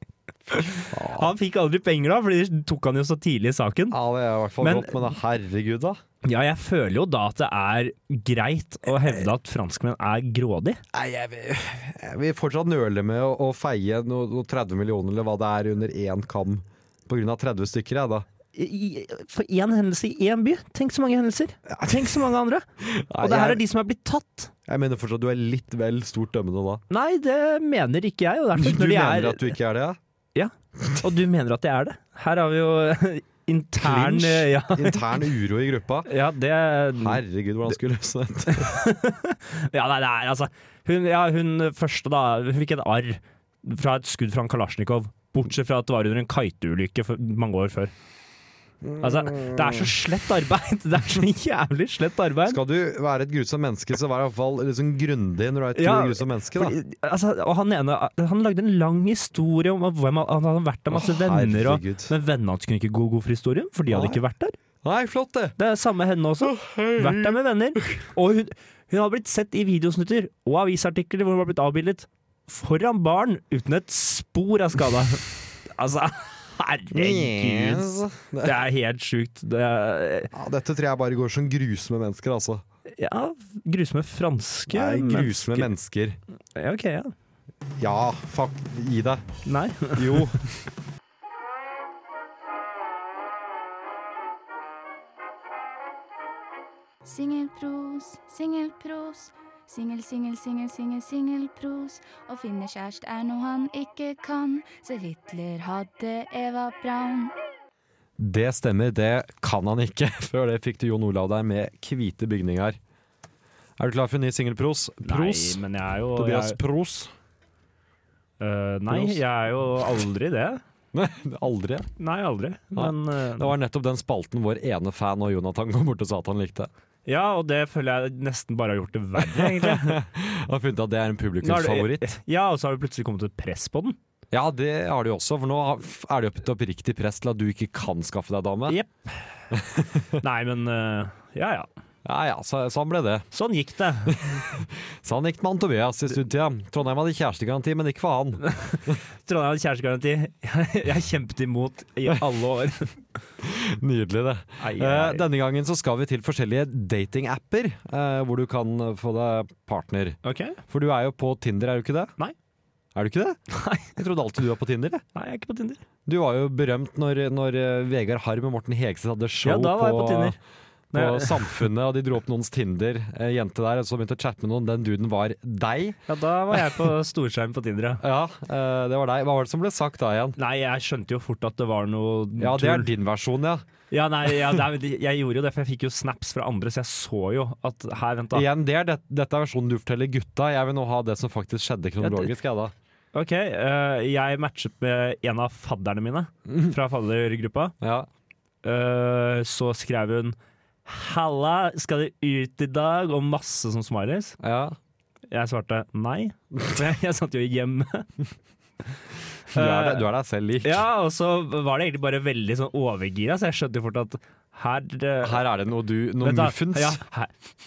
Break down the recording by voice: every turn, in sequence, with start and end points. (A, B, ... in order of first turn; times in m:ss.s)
0:00.5-0:04.0 A
0:00.9-0:01.3 B
0:03.9-0:06.0 B
0:04.6-0:05.1 A
0:06.2-0:10.8 A
0:10.9-0:18.2 B
0:18.5-0:22.6 A
0:21.7-0:22.1 B
0:22.8-0:23.6 B
0:23.2-0:24.5 A
0:24.7-0:26.8 B
0:26.9-0:29.6 A
0:28.6-0:30.0 B
0:30.3-0:35.2 A
0:33.8-0:36.1 B
0:36.0-0:37.2 A
0:37.0-0:38.8 B
0:38.5-0:47.9 A
0:48.8-0:49.9 B
0:49.0-0:52.6 A
0:52.4-0:56.8 B
0:55.7-1:04.6 A
1:00.9-1:02.1 B
1:03.9-1:04.2 B
1:04.8-1:05.6 B
1:05.6-1:20.3 A
1:06.4-1:08.0 B
1:16.9-1:18.6 B
1:20.3-1:22.6 B
1:22.9-1:25.7 A
1:24.7-1:26.2 B
1:26.5-1:27.1 A
1:27.8-1:29.2 B
1:29.4-1:30.4 A
1:29.9-1:30.4 B
1:37.0-1:47.3 C
1:48.2-1:52.8 B
1:53.8-1:55.6 B
1:55.0-1:56.6 A
1:56.1-1:57.1 B
1:58.4-2:00.6 A
1:58.9-1:59.2 B
2:00.9-2:01.9 B
2:02.0-2:03.5 A
2:02.7-2:06.7 B
2:07.0-2:10.0 A
2:09.2-2:12.2 B
2:11.4-2:14.0 A
2:14.3-2:18.8 B
2:18.7-2:19.3 A
2:19.5-2:20.2 B
2:20.2-2:21.7 A
2:22.0-2:23.3 B
2:23.3-2:24.2 A
2:24.1-2:29.0 B
2:28.4-2:32.9 A
2:33.4-2:42.1 B
2:34.6-2:35.2 A
2:40.2-2:40.6 A
2:42.9-2:45.0 B
2:43.5-2:43.9 A
2:45.1-2:45.8 A
2:46.0-2:50.4 B
2:49.4-2:50.4 A
2:50.9-2:51.7 A
2:50.9-2:56.0 B
2:56.1-2:58.0 A
2:58.0-3:00.4 B
3:00.4-3:02.9 A
3:02.4-3:03.6 B
3:03.9-3:08.5 A
3:08.3-3:12.7 B
3:12.0-3:12.3 A
3:13.1-3:17.7 A
3:16.5-3:16.7 B
3:17.8-3:18.1 B
3:18.6-3:24.4 A
3:24.4-3:24.8 B
3:25.3-3:28.1 A
3:29.5-3:30.1 A
3:29.5-3:30.8 B
3:30.6-3:35.4 A
3:35.2-3:37.0 B
3:36.2-3:37.3 A